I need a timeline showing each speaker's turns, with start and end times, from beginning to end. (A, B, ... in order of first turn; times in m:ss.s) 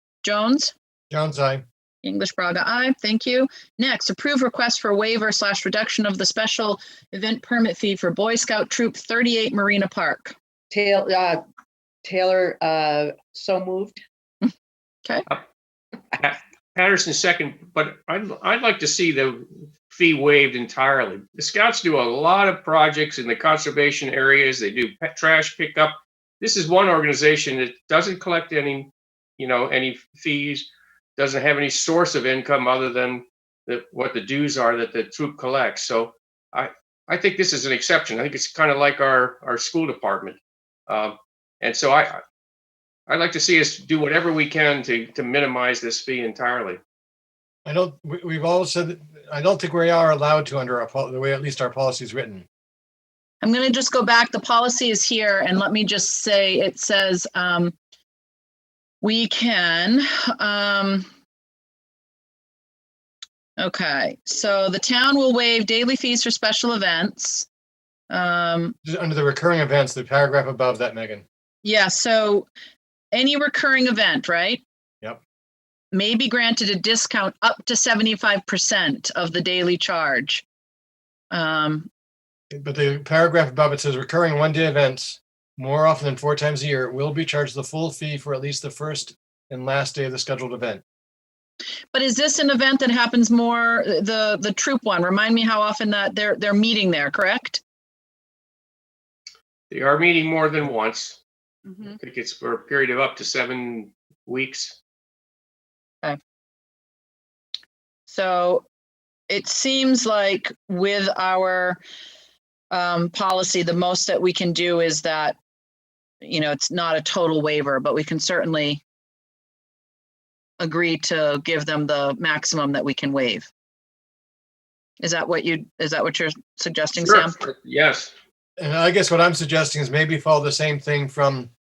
0:00.2-0:00.7 A
0:01.1-0:01.6 B
0:02.0-0:10.4 A
0:10.7-0:11.4 C
0:12.0-0:14.0 C
0:16.1-0:42.2 D
0:43.1-0:46.8 D
0:47.6-0:52.5 B
0:53.4-0:57.8 A
0:59.0-1:01.1 A
1:03.6-1:07.5 A
1:08.1-1:08.8 A
1:08.8-1:11.2 B
1:11.6-1:12.5 A
1:13.1-1:14.6 A
1:15.9-1:20.4 A
1:21.3-1:21.9 A
1:22.5-1:30.8 B
1:31.9-1:37.6 A
1:39.7-1:41.2 D
1:41.8-1:44.8 D
1:48.1-1:48.6 A
1:49.3-1:51.8 A
1:52.7-1:55.4 A
1:56.2-1:58.8 A
2:00.6-2:03.5 A
2:05.0-2:07.4 A
2:07.0-2:08.1 D
2:08.6-2:11.5 B